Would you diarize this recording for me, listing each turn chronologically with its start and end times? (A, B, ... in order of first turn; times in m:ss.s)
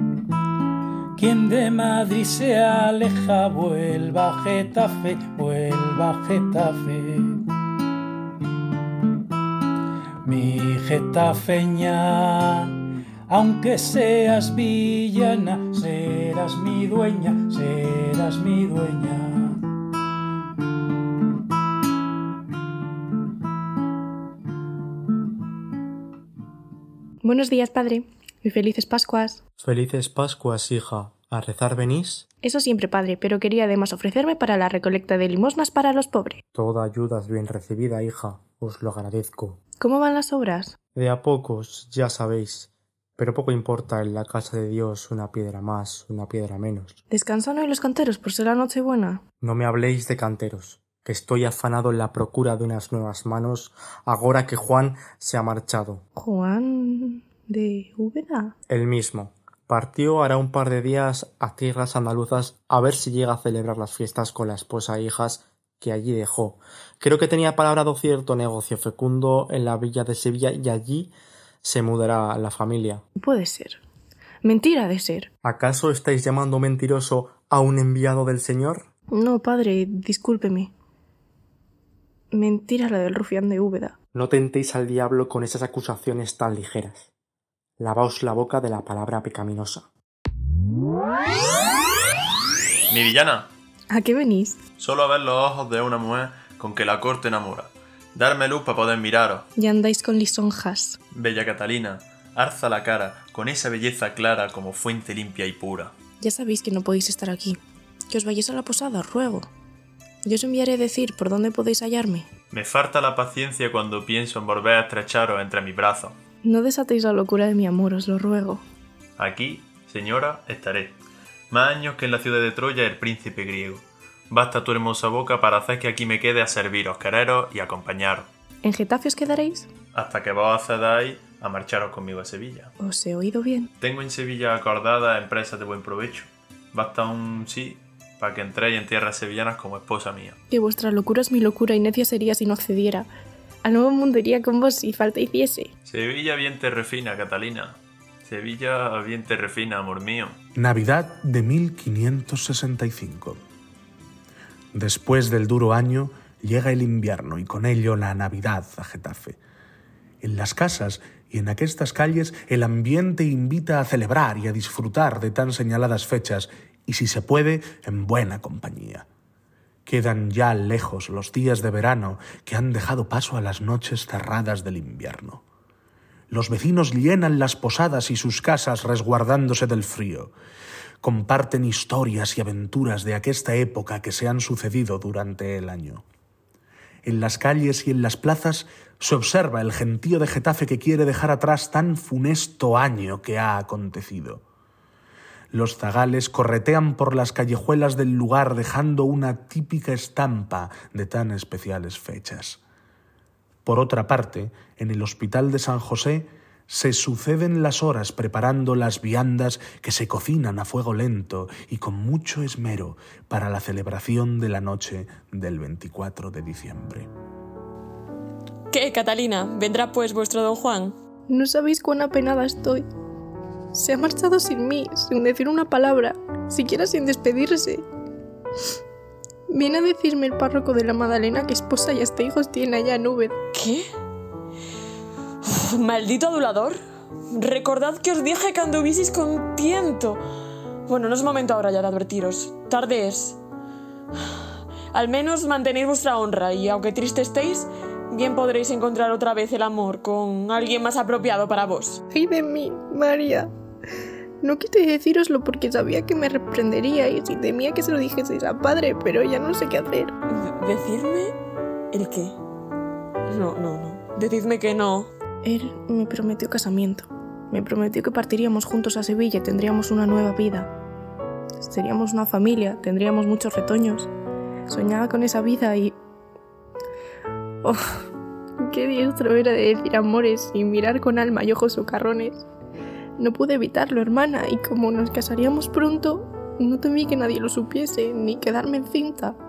0:01.2-0:07.4 A
0:10.2-0:12.7 A
0:13.3-0:19.6 A
0:27.2-0:29.4 B
0:29.6-0:32.3 C
0:32.4-0:36.4 B
0:36.5-0:39.6 C
0:39.8-0:40.8 B
0:40.9-0:47.0 C
0:47.1-0:49.2 B
0:49.4-0:56.0 C
0:56.2-0:58.5 B
0:58.7-1:13.0 C
1:13.2-1:13.8 B
1:14.4-1:15.3 B
1:15.4-1:18.9 C
1:19.1-1:20.7 B
1:22.3-1:24.0 B
1:24.1-1:27.1 C
1:27.8-1:29.9 C
1:32.9-1:33.5 D
1:33.9-1:34.6 B
1:34.8-1:39.4 D
1:39.6-1:41.0 B
1:41.1-1:45.9 D
1:46.2-1:47.6 B
1:48.1-1:49.5 B
1:50.2-1:52.3 B
1:52.5-1:56.2 D
1:56.4-1:58.6 B
1:59.2-2:01.0 D
2:01.5-2:08.3 D
2:08.6-2:09.7 B
2:09.9-2:12.7 D
2:12.8-2:13.7 B
2:13.8-2:20.4 D
2:20.5-2:23.1 B
2:23.6-2:25.7 B
2:25.9-2:30.4 D
2:30.6-2:33.4 E
2:34.7-2:39.4 E
2:40.2-2:49.1 E
2:49.9-2:55.4 E
2:56.3-3:00.3 E
3:01.0-3:06.0 E
3:07.0-3:14.4 E
3:15.5-3:22.6 E
3:23.6-3:37.1 E
3:38.7-3:40.9 F
3:41.3-3:42.8 B
3:43.7-3:47.8 B
3:49.5-3:53.3 B
3:53.5-3:53.8 F
3:55.4-3:56.8 F
3:57.3-4:00.2 F
4:00.9-4:03.4 F
4:04.9-4:12.0 F
4:12.1-4:13.5 B
4:14.4-4:20.2 B
4:20.3-4:21.3 F
4:21.9-4:22.4 F
4:23.3-4:25.1 F
4:25.4-4:30.7 B
4:31.6-4:34.1 B
4:34.7-4:36.0 B
4:38.7-4:42.4 B
4:43.2-4:49.4 B